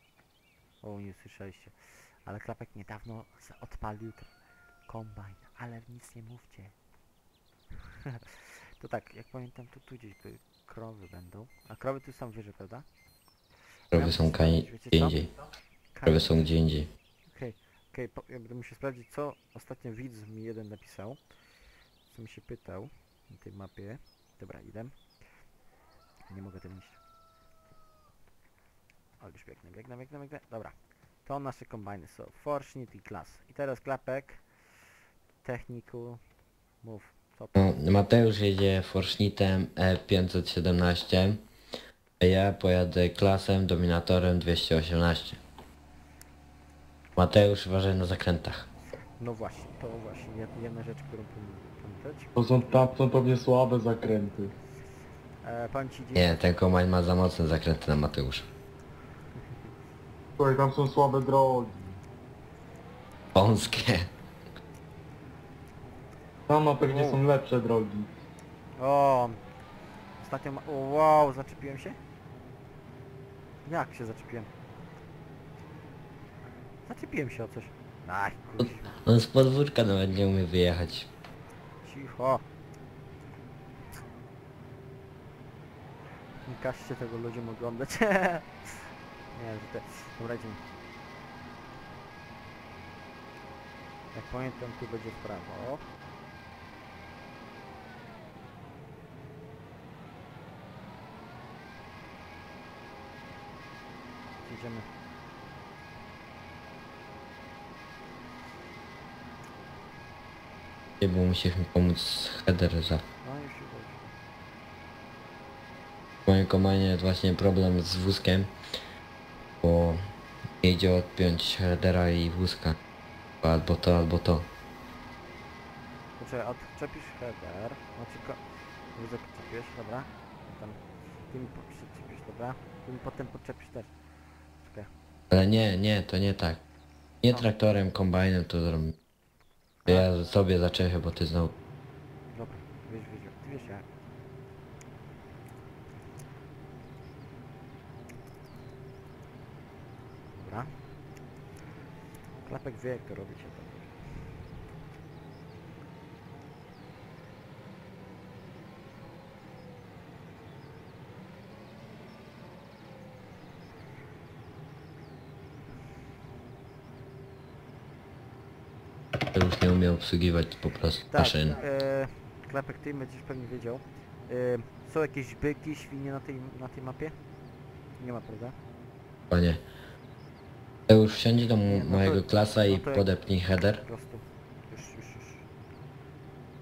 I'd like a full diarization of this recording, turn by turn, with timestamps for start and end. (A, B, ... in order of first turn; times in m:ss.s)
0:00.8-0:04.3 A
0:04.9-0:06.7 A
0:08.1-0:12.8 A
0:13.9-0:15.3 A
0:13.9-0:15.3 B
0:15.9-0:16.4 A
0:16.0-0:16.9 B
0:17.3-0:21.2 A
0:22.1-0:25.0 A
0:26.3-0:27.0 A
0:29.2-0:34.4 A
0:35.4-0:36.2 A
0:36.8-0:37.7 A
0:37.5-0:41.4 B
0:42.2-0:45.4 B
0:47.2-0:48.7 B
0:49.2-0:52.3 A
0:52.4-0:54.5 C
0:55.4-0:56.3 A
0:56.1-0:58.5 B
1:00.4-1:01.8 C
1:03.3-1:04.1 B
1:06.5-1:08.1 C
1:06.8-1:07.2 A
1:08.8-1:09.4 A
1:10.2-1:12.0 A
1:13.6-1:14.5 A
1:16.9-1:18.9 A
1:18.6-1:21.1 B
1:21.8-1:22.4 A
1:26.4-1:30.6 A
1:34.1-1:35.8 A
1:44.4-1:44.8 A
1:51.0-1:53.0 B
1:53.2-1:54.1 A
1:56.2-1:58.5 B
1:59.6-2:00.0 B
2:00.6-2:02.8 B
2:03.4-2:04.5 B
2:06.2-2:08.4 A
2:09.0-2:10.8 A
2:11.3-2:13.9 A
2:14.6-2:14.9 A
2:15.3-2:16.6 B
2:17.2-2:19.0 B
2:19.8-2:21.5 B
2:22.3-2:23.8 A
2:30.3-2:30.7 A
2:32.4-2:33.9 A
2:49.3-2:51.6 B
2:51.1-2:57.1 A
2:58.0-2:58.5 A
2:59.3-2:59.6 B
3:00.9-3:03.8 B
3:01.7-3:03.1 A
3:03.8-3:05.4 A